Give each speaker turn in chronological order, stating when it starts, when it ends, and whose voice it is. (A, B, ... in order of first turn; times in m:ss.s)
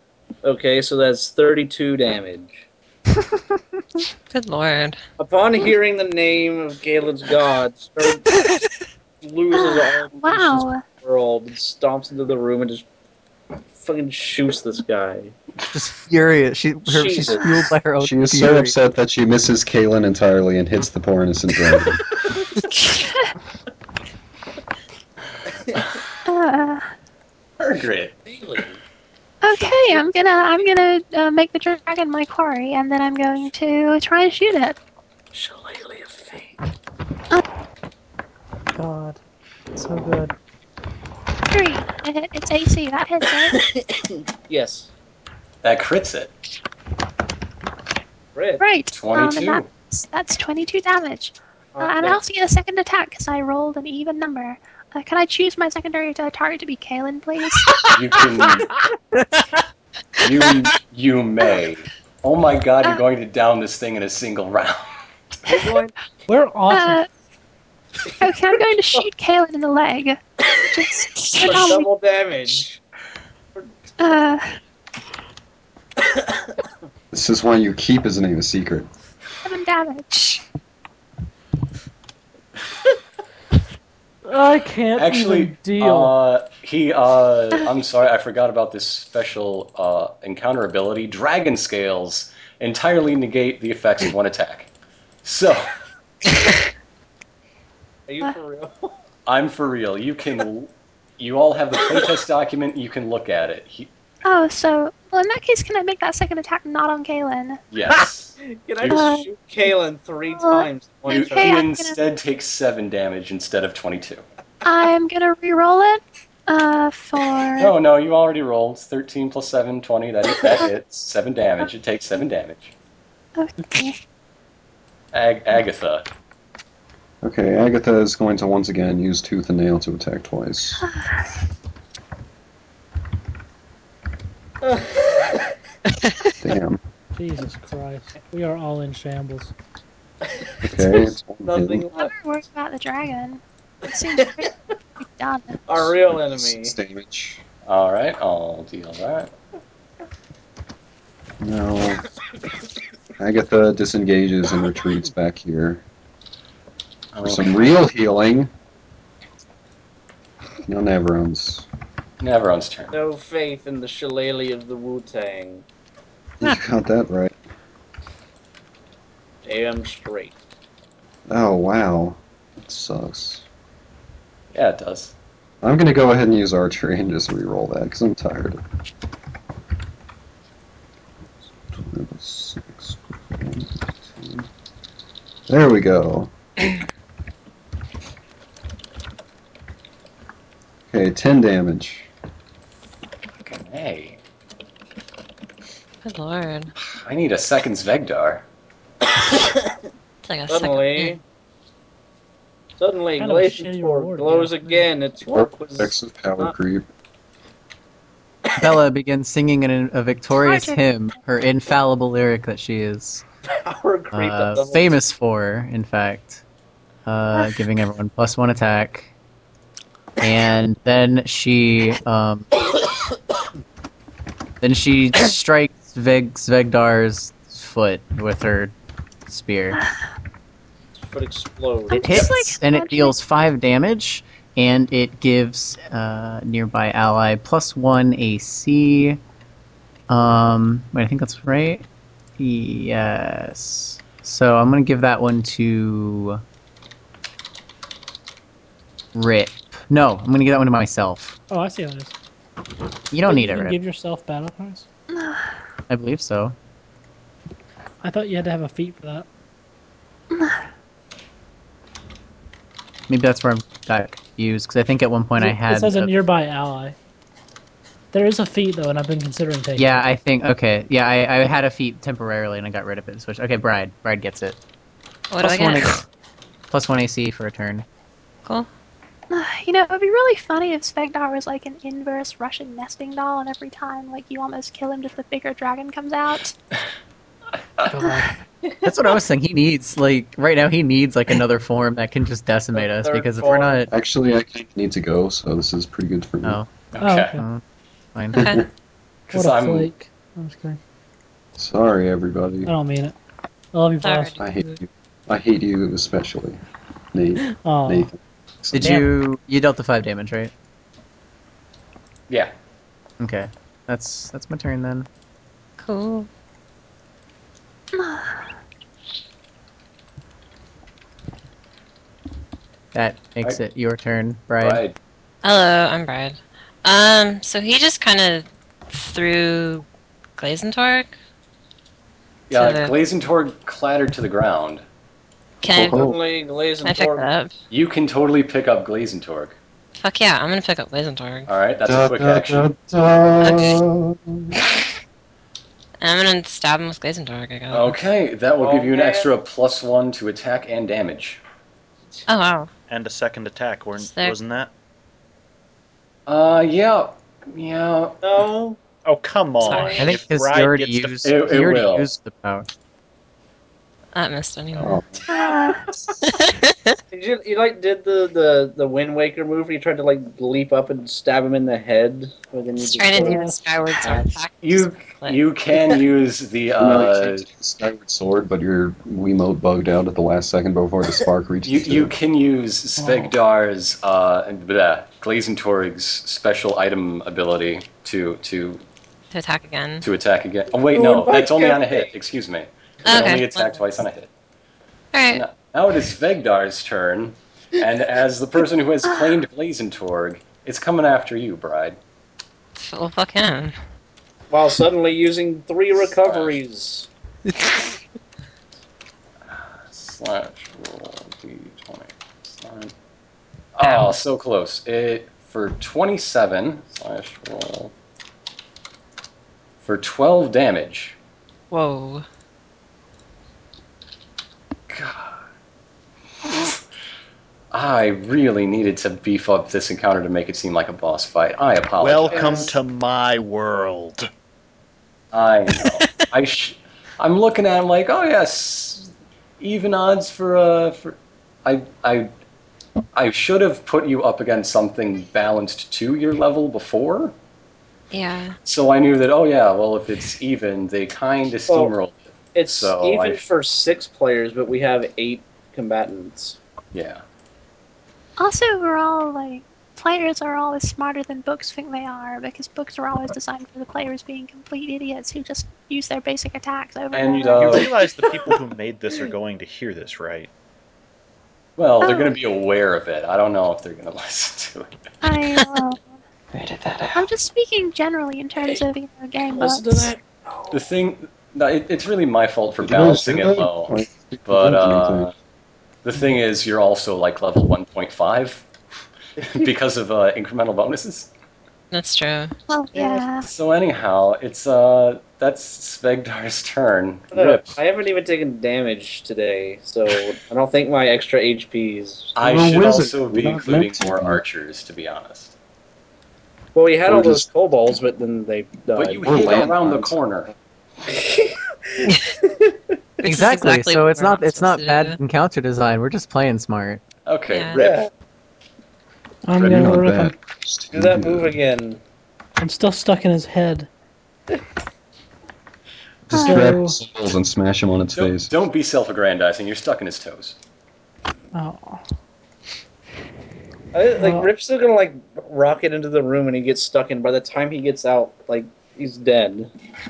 0:00.4-0:02.7 A
0:04.3-0:05.0 B
0:05.2-0:08.3 A
0:09.2-0:12.9 A
0:09.5-0:10.9 C
0:13.8-0:15.4 A
0:15.7-0:18.8 D
0:16.9-0:17.5 A
0:18.0-0:22.0 E
0:22.6-0:23.3 C
0:26.3-0:26.9 C
0:27.6-0:28.1 F
0:28.2-0:28.8 A
0:29.4-0:34.8 C
0:29.5-0:30.1 A
0:35.3-0:36.6 A
0:38.8-0:39.2 G
0:39.7-0:40.3 G
0:41.5-0:43.6 C
0:43.2-0:44.9 A
0:45.6-0:46.3 F
0:48.4-0:48.7 A
0:48.6-0:57.8 C
0:48.9-0:49.7 F
0:51.7-0:52.2 A
0:57.9-0:58.7 F
0:58.4-0:58.7 A
1:00.2-1:05.0 F
1:05.5-1:05.8 C
1:05.5-1:06.0 A
1:06.3-1:07.0 G
1:06.7-1:07.1 C
1:08.1-1:09.1 A
1:08.2-1:10.2 C
1:10.5-1:12.8 A
1:10.7-1:11.9 C
1:14.0-1:14.6 C
1:17.1-1:18.9 E
1:19.4-1:20.4 C
1:24.2-1:26.1 G
1:25.0-1:34.7 F
1:35.2-1:35.8 F
1:38.1-1:39.0 A
1:39.3-1:43.9 F
1:44.2-1:47.6 C
1:47.7-1:49.1 F
1:47.9-1:51.6 A
1:48.9-1:49.3 C
1:50.3-1:52.0 C
1:51.1-1:54.2 F
1:54.6-1:57.7 C
1:57.6-2:02.7 F
2:03.4-2:04.0 C
2:05.1-2:06.1 F
2:07.2-2:10.9 E
2:10.8-2:11.3 C
2:14.6-2:15.5 A
2:16.0-2:16.3 B
2:16.4-2:16.8 E
2:17.2-2:19.5 G
2:20.3-2:22.1 A
2:20.6-2:21.8 E
2:21.9-2:24.5 C
2:24.0-2:24.5 A
2:25.2-2:25.6 C
2:25.7-2:26.8 A
2:25.8-2:27.4 E
2:27.6-2:29.3 F
2:31.4-2:32.0 E
2:33.2-2:35.8 E
2:37.1-2:37.6 F
2:37.2-2:38.5 E
2:40.7-2:41.7 E
2:42.2-2:42.9 F
2:42.9-2:45.6 A
2:46.4-2:47.4 E
2:49.4-2:50.4 A
2:51.3-2:53.5 E
2:54.5-2:55.1 F
2:55.6-2:58.6 E
3:01.7-3:04.5 E
3:05.5-3:06.3 E
3:10.9-3:12.1 E
3:13.4-3:14.2 F
3:16.0-3:16.7 B
3:16.8-3:18.4 F
3:20.2-3:21.2 B
3:20.5-3:21.2 A
3:22.8-3:26.5 A
3:23.2-3:24.9 G
3:25.3-3:26.9 E
3:28.6-3:33.2 D
3:30.4-3:31.2 C
3:33.5-3:35.0 A
3:34.1-3:36.4 D
3:37.0-3:39.1 D
3:40.2-3:42.5 D
3:44.6-3:48.7 D
3:49.3-3:49.8 D
3:51.0-3:52.5 A
3:51.9-3:53.1 C
3:51.9-3:59.2 D
4:00.1-4:01.9 D
4:02.4-4:06.4 D
4:09.1-4:11.4 D
4:11.5-4:12.1 G
4:13.1-4:13.8 D
4:13.2-4:14.9 G
4:15.1-4:15.5 C
4:15.9-4:16.6 D
4:18.0-4:19.3 G
4:20.3-4:20.6 C
4:23.1-4:26.1 D
4:25.4-4:27.0 G
4:28.1-4:30.0 G
4:29.8-4:34.6 D
4:35.3-4:36.0 B
4:35.4-4:36.0 D
4:36.7-4:37.8 D
4:39.3-4:46.5 C
4:47.9-4:48.4 G
4:48.8-4:53.9 D
4:52.7-4:53.8 A
4:53.9-4:56.6 E
4:56.4-4:56.7 D
4:56.9-4:57.4 F
4:57.0-4:57.4 G
4:57.4-4:57.6 D
4:58.2-4:58.5 D
4:58.3-4:58.6 B
4:58.4-4:58.6 E
4:59.3-4:59.9 F
4:59.3-5:00.8 G
5:01.6-5:02.7 E
5:02.7-5:03.2 G
5:03.7-5:04.7 G
5:04.0-5:04.4 B
5:04.4-5:06.6 E
5:07.1-5:09.0 E
5:07.6-5:08.1 G
5:08.8-5:10.5 D
5:08.8-5:09.1 G
5:13.2-5:15.1 D
5:15.8-5:16.3 B
5:17.9-5:18.4 C
5:22.9-5:24.8 D
5:24.6-5:25.0 F
5:25.4-5:29.9 B
5:30.4-5:31.2 B
5:32.5-5:34.8 F
5:32.5-5:33.0 B
5:35.6-5:36.1 B
5:35.7-5:36.2 E
5:35.7-5:37.3 A
5:36.8-5:37.6 B
5:37.7-5:39.6 F
5:40.0-5:41.5 B
5:41.5-5:42.7 F
5:41.8-5:44.5 E
5:43.4-5:43.8 B
5:46.0-5:48.0 B
5:47.7-5:51.4 F
5:48.6-5:49.3 A
5:52.3-5:52.7 B
5:52.9-5:54.7 H
5:54.0-5:54.4 B
5:56.3-5:58.2 F
5:58.2-5:58.8 A
5:59.0-6:01.2 H
5:59.6-6:00.1 B
5:59.7-6:00.2 A
6:00.0-6:02.7 D
6:01.2-6:02.1 F
6:04.1-6:05.0 B
6:04.8-6:05.2 E
6:05.3-6:05.8 C
6:05.5-6:05.8 A
6:06.2-6:07.0 B
6:07.1-6:13.5 A
6:12.8-6:16.0 B
6:13.1-6:13.7 G
6:14.0-6:14.4 A
6:14.6-6:17.4 F
6:16.8-6:22.1 E
6:21.6-6:28.8 F
6:23.0-6:23.3 G
6:29.3-6:30.0 B
6:30.0-6:34.3 F
6:30.7-6:32.2 A
6:33.0-6:33.8 B
6:35.1-6:35.4 B
6:35.3-6:42.0 F
6:39.0-6:39.4 C
6:42.8-6:43.8 B
6:44.5-6:47.1 A
6:46.0-6:46.6 F
6:47.5-6:47.9 B
6:49.5-6:52.9 F
6:53.8-6:57.9 F
6:53.8-6:54.2 B
6:59.8-7:01.2 F
7:01.7-7:02.3 B
7:04.9-7:05.4 F
7:07.7-7:12.7 F
7:12.0-7:14.3 H
7:12.3-7:12.8 A
7:15.3-7:22.3 F
7:15.8-7:16.3 B
7:23.2-7:27.3 F
7:28.1-7:28.6 B
7:28.6-7:33.4 F
7:31.7-7:32.0 A
7:32.5-7:36.6 A
7:36.9-7:37.2 F
7:38.4-7:48.0 C
7:47.1-7:47.9 F
7:47.6-7:50.5 H
7:51.8-7:54.9 F
7:52.0-7:52.4 C
7:55.2-7:56.0 C
7:56.5-7:57.3 E
7:57.1-8:00.1 C
7:58.6-7:58.9 A
7:59.4-8:00.9 A
8:00.7-8:05.3 F
8:02.8-8:05.3 E
8:06.0-8:08.7 F
8:09.4-8:11.3 F
8:11.9-8:12.6 B
8:12.7-8:13.5 C
8:13.4-8:17.8 F
8:17.3-8:22.4 A
8:22.4-8:25.5 F
8:22.4-8:24.4 E
8:26.8-8:29.2 A
8:27.1-8:27.5 E
8:29.0-8:30.5 F
8:29.2-8:30.6 E
8:31.1-8:32.7 A
8:33.2-8:35.2 B
8:33.2-8:37.0 D
8:37.3-8:38.0 F
8:37.5-8:37.8 B
8:37.7-8:38.1 A
8:39.4-8:40.4 G
8:39.6-8:39.9 F
8:39.6-8:41.5 E
8:40.9-8:42.0 A
8:42.6-8:43.9 G
8:46.3-8:48.5 E
8:46.3-8:47.0 G
8:46.3-8:46.7 C
8:48.2-8:50.6 F
8:51.5-8:52.0 G
8:53.9-8:59.7 A
8:54.2-8:54.5 G